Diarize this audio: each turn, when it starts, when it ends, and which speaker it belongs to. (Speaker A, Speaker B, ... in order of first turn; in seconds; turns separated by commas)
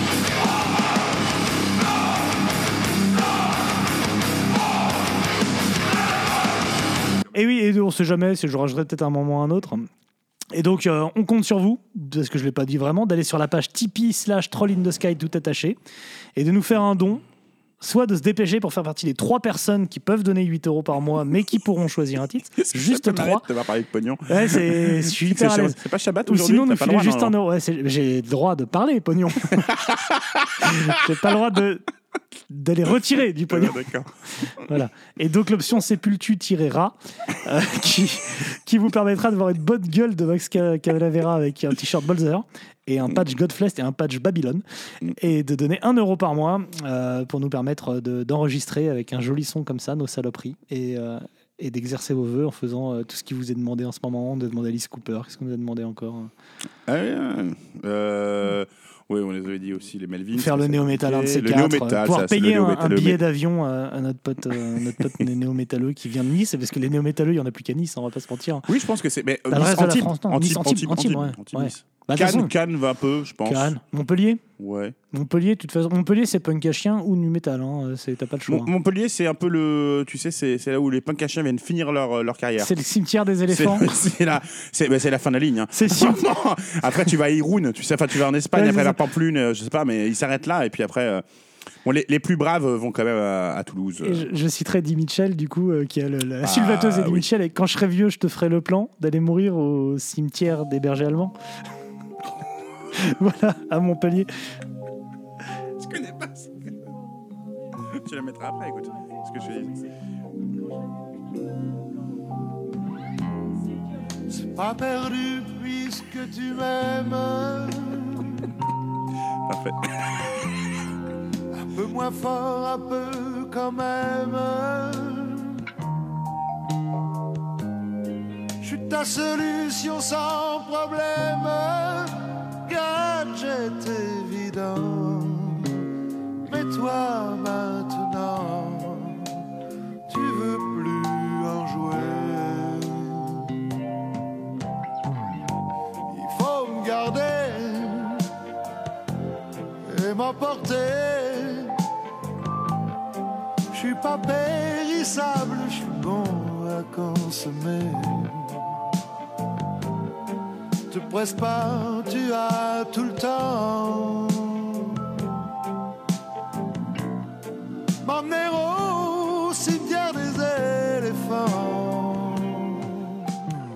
Speaker A: 7.3-9.9, Speaker A: 10.5-15.8, Speaker A: 16.4-17.2, Speaker A: 17.8-23.5, Speaker B: 22.6-27.4, Speaker A: 24.3-29.8, Speaker B: 29.6-30.7, Speaker A: 30.6-31.8, Speaker A: 32.5-33.8, Speaker B: 33.5-34.1, Speaker A: 34.6-56.3, Speaker B: 56.9-63.2, Speaker A: 60.3-68.7, Speaker B: 68.7-73.7, Speaker A: 69.5-72.5, Speaker A: 73.5-74.4, Speaker B: 74.6-75.0, Speaker A: 75.1-78.7, Speaker B: 78.5-82.7, Speaker A: 82.6-83.9, Speaker B: 83.5-91.2, Speaker A: 85.7-86.2, Speaker A: 88.5-89.0, Speaker B: 91.8-94.3, Speaker A: 94.0-101.3, Speaker B: 96.4-97.2, Speaker A: 102.9-104.3, Speaker B: 105.8-106.9, Speaker B: 107.8-109.8, Speaker C: 114.5-118.2, Speaker B: 119.5-120.4, Speaker C: 121.7-125.5, Speaker C: 128.6-132.1, Speaker C: 132.7-135.8, Speaker C: 136.5-139.3, Speaker C: 140.1-143.2, Speaker C: 146.1-148.2, Speaker C: 149.8-151.8, Speaker C: 153.7-158.5, Speaker C: 160.9-164.9, Speaker C: 168.0-173.0